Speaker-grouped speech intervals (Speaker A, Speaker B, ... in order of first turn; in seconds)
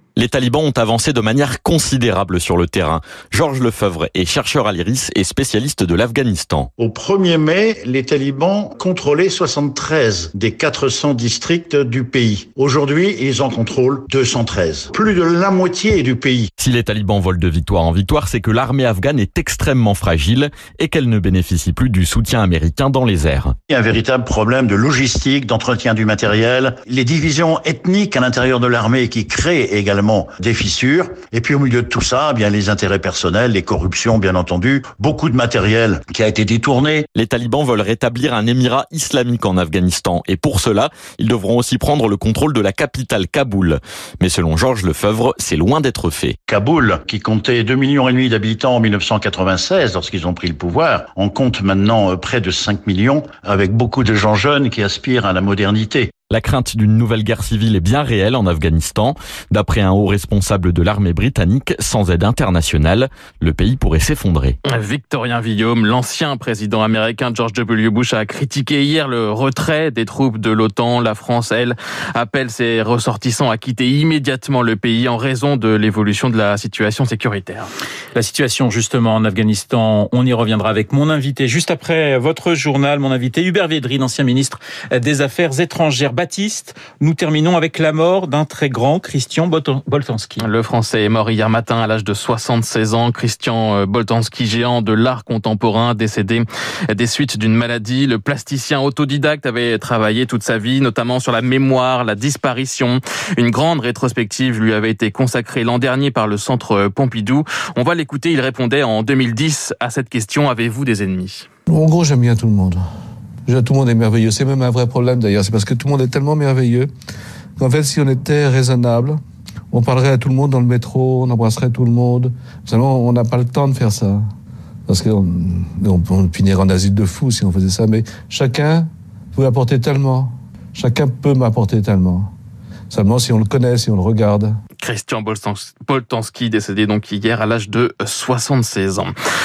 Speaker A: 0.2-6.7, 16.6-23.6, 37.1-46.4, 56.3-64.6
Speaker B: 6.8-16.5, 23.7-37.1, 46.5-56.1
Speaker C: 64.7-77.7, 90.4-111.5, 134.8-139.1
Speaker D: 78.2-90.5
Speaker E: 111.7-112.8, 113.5-116.9, 117.6-119.2, 119.7-124.2, 124.9-132.3, 132.9-134.5